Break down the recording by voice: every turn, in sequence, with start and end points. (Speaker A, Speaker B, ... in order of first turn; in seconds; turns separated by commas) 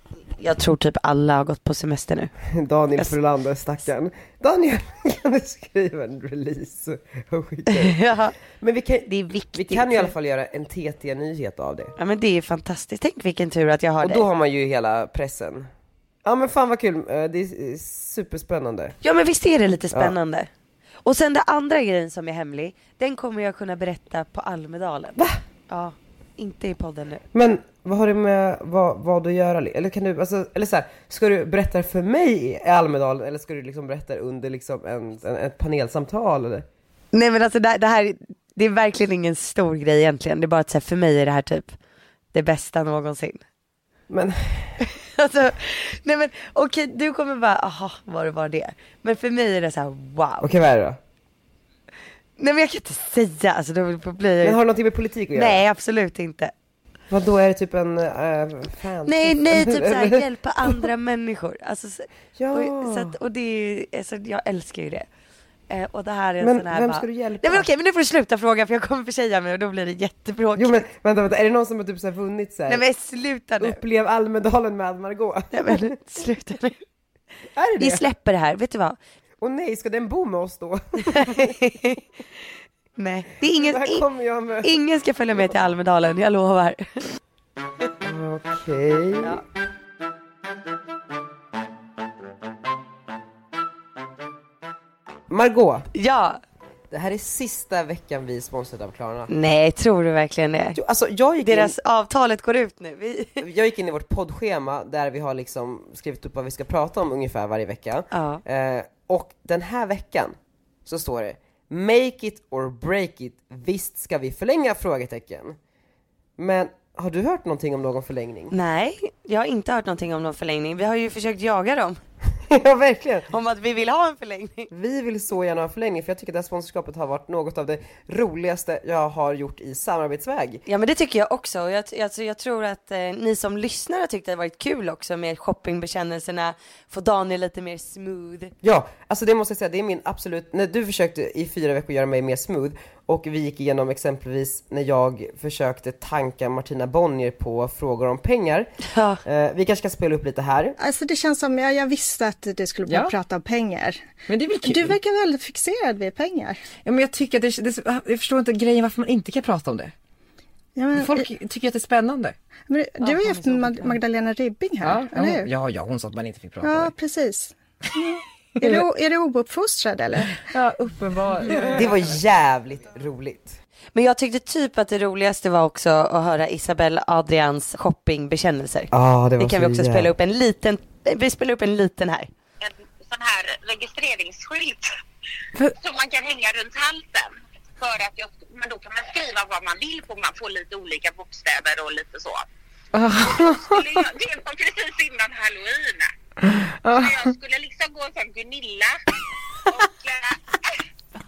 Speaker A: 0.4-2.3, Speaker B: 2.5-8.0, Speaker A: 7.7-8.3, Speaker B: 8.6-11.9, Speaker A: 9.1-10.1, Speaker A: 12.0-14.2, Speaker B: 14.0-15.7, Speaker B: 16.2-18.9, Speaker A: 19.0-20.5, Speaker A: 21.0-27.2, Speaker B: 27.3-36.6, Speaker A: 37.1-41.7, Speaker A: 42.3-43.4, Speaker B: 44.1-44.7, Speaker A: 44.8-50.5, Speaker B: 50.4-51.0, Speaker A: 52.4-54.6, Speaker B: 54.4-55.6, Speaker A: 55.3-56.5, Speaker B: 57.1-60.9, Speaker A: 59.0-65.1, Speaker B: 62.3-63.1, Speaker A: 65.7-70.8, Speaker B: 66.4-67.7, Speaker B: 70.5-72.8, Speaker A: 72.7-73.8, Speaker B: 73.6-75.9, Speaker A: 75.5-76.8, Speaker B: 77.5-78.0, Speaker A: 77.8-79.0, Speaker B: 79.4-81.5, Speaker A: 81.1-82.0, Speaker A: 83.0-84.0, Speaker B: 83.4-84.7, Speaker A: 84.6-86.8, Speaker B: 88.0-89.4, Speaker B: 95.3-95.9, Speaker A: 95.9-96.4, Speaker B: 96.9-99.3, Speaker A: 99.3-100.8, Speaker B: 100.7-101.7, Speaker A: 101.4-103.4, Speaker B: 103.4-115.6, Speaker A: 108.1-108.4, Speaker B: 116.4-118.5, Speaker A: 118.5-122.0, Speaker B: 122.5-123.3, Speaker A: 123.3-124.7, Speaker B: 124.7-130.6, Speaker A: 130.7-138.5, Speaker B: 138.6-148.7, Speaker A: 148.8-149.2, Speaker B: 149.2-150.8, Speaker C: 150.8-154.0, Speaker D: 152.9-153.1, Speaker D: 154.3-155.0, Speaker C: 154.6-156.6, Speaker D: 156.8-159.9, Speaker C: 160.8-161.2, Speaker D: 160.9-162.3, Speaker C: 162.7-165.5, Speaker D: 163.0-164.0, Speaker D: 164.8-166.9, Speaker C: 166.6-170.4, Speaker D: 168.6-168.8, Speaker D: 170.4-172.0, Speaker B: 171.6-173.6, Speaker A: 173.9-182.3, Speaker B: 178.9-180.1, Speaker E: 182.6-184.9, Speaker E: 185.8-192.4, Speaker D: 192.9-194.0, Speaker E: 193.2-196.1, Speaker D: 196.4-197.3, Speaker E: 196.9-199.0, Speaker E: 199.7-200.7